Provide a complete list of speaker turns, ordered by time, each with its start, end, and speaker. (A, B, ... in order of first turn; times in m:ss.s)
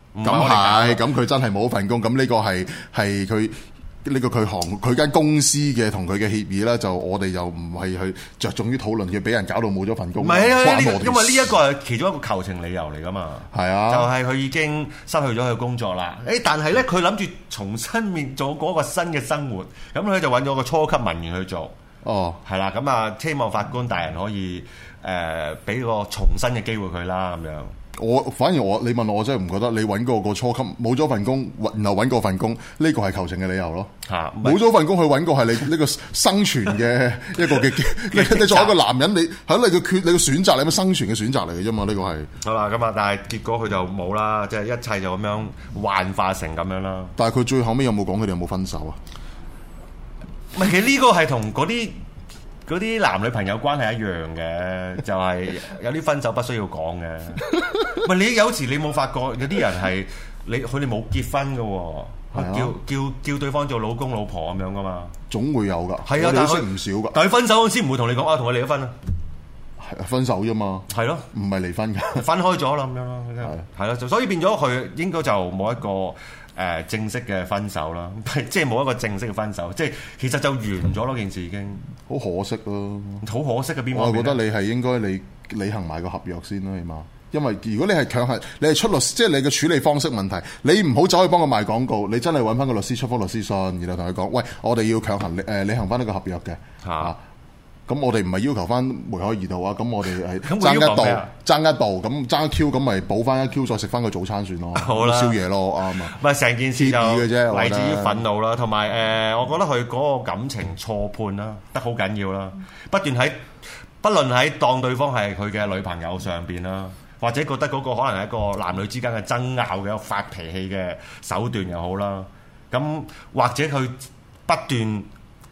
0:00.2-0:01.0 A
0:00.2-0:11.5 B
0:10.2-0:21.7 A
0:13.5-0:14.1 B
0:22.0-0:22.4 B
0:22.4-0:27.7 A
0:28.0-0:42.3 B
0:34.1-0:34.7 A
0:38.1-0:38.8 A
0:42.4-0:47.1 A
0:47.2-0:49.0 B
0:50.6-0:52.0 A
0:52.7-1:05.1 A
1:02.3-1:02.7 B
1:05.3-1:07.2 B
1:06.0-1:09.0 A
1:09.8-1:12.3 B
1:10.9-1:11.3 A
1:12.2-1:21.8 A
1:22.1-1:23.2 B
1:23.2-1:24.4 A
1:23.9-1:37.2 B
1:36.8-1:37.1 A
1:37.9-1:46.2 B
1:40.4-1:41.3 A
1:44.8-1:45.4 A
1:46.1-1:53.4 A
1:46.8-1:48.2 B
1:54.0-2:05.1 A